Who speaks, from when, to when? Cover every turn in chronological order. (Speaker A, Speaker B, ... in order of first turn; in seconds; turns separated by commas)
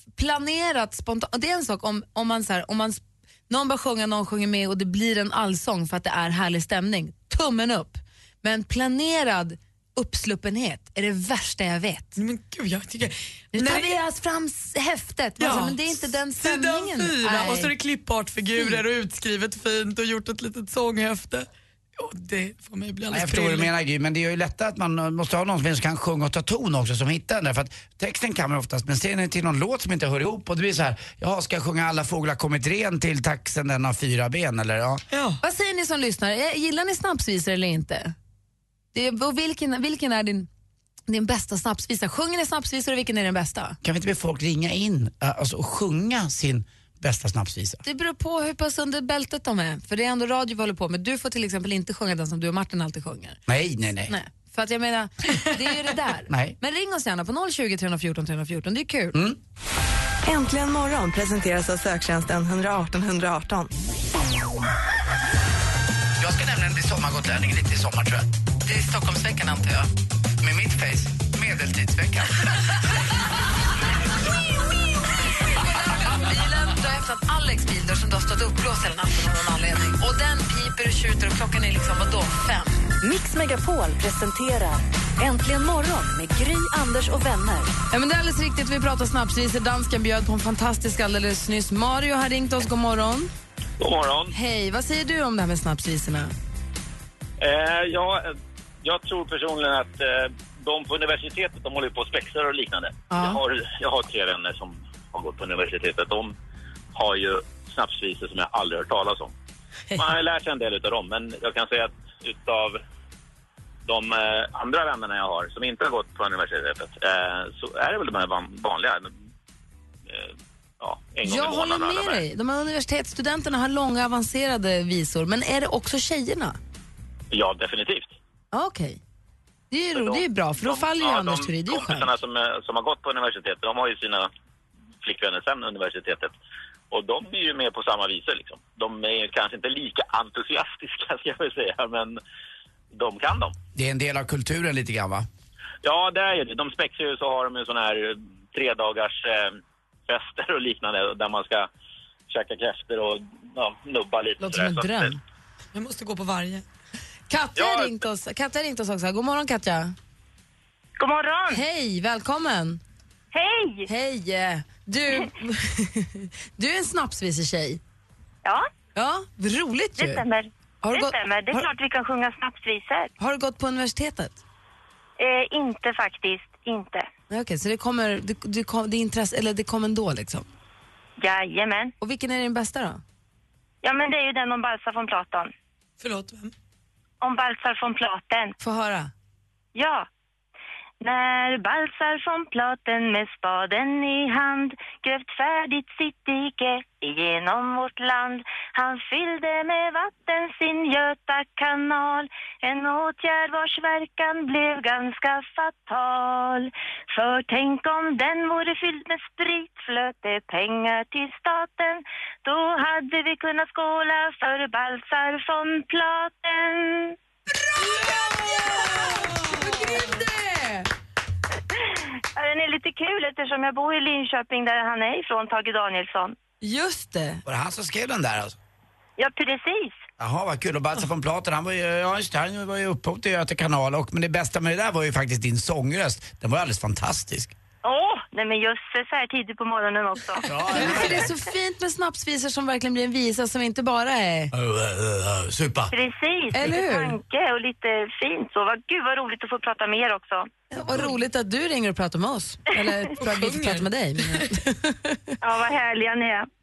Speaker A: 0.1-12.2, Speaker B: 12.2-13.9, Speaker A: 13.5-17.7, Speaker B: 15.4-21.5, Speaker B: 22.0-23.7, Speaker C: 23.1-35.0, Speaker B: 35.1-35.4, Speaker A: 35.4-38.1, Speaker A: 38.9-40.5, Speaker A: 41.1-43.8, Speaker C: 43.8-47.8, Speaker A: 47.8-53.4, Speaker C: 53.5-54.1, Speaker A: 54.1-59.2, Speaker C: 56.3-56.6, Speaker D: 60.3-63.7, Speaker C: 66.2-68.3, Speaker A: 68.7-69.9, Speaker C: 70.4-72.7, Speaker A: 75.4-82.7, Speaker E: 83.0-87.7, Speaker A: 87.9-93.3, Speaker F: 93.8-94.3, Speaker A: 94.3-96.3, Speaker F: 97.4-106.3, Speaker A: 103.1-103.4, Speaker F: 107.0-109.3, Speaker F: 110.0-112.8, Speaker F: 113.9-119.1, Speaker F: 120.1-122.2, Speaker A: 121.2-126.6, Speaker F: 127.3-128.2, Speaker A: 128.5-129.0, Speaker A: 129.7-132.1, Speaker F: 129.9-134.3, Speaker F: 135.0-136.3, Speaker F: 136.9-142.2, Speaker F: 142.9-143.6, Speaker C: 143.8-145.3, Speaker F: 145.8-151.7, Speaker F: 152.3-155.1, Speaker A: 154.4-155.2, Speaker B: 155.7-156.7, Speaker A: 157.3-159.9, Speaker F: 157.6-157.9, Speaker G: 161.0-161.6, Speaker A: 161.5-162.8, Speaker G: 163.3-163.9, Speaker A: 163.9-167.8, Speaker G: 168.4-168.7, Speaker A: 168.9-170.2, Speaker G: 170.0-173.1, Speaker A: 170.8-171.7, Speaker A: 173.2-174.4, Speaker G: 175.2-177.1, Speaker A: 177.3-180.5, Speaker G: 181.2-181.9, Speaker A: 182.0-183.0, Speaker G: 183.8-185.5, Speaker B: 186.0-186.5, Speaker G: 187.2-188.6, Speaker A: 188.6-189.1, Speaker G: 189.8-190.1, Speaker G: 191.0-217.2, Speaker A: 217.8-220.9, Speaker G: 221.7-226.4, Speaker A: 226.6-227.4, Speaker C: 227.5-228.6, Speaker G: 229.2-230.0, Speaker C: 230.2-237.6, Speaker G: 237.8-240.6, Speaker C: 240.4-241.3, Speaker A: 240.7-244.5, Speaker C: 244.5-245.9, Speaker G: 245.9-250.5, Speaker A: 246.5-247.2, Speaker A: 250.7-255.4, Speaker B: 253.1-254.5, Speaker G: 255.4-256.5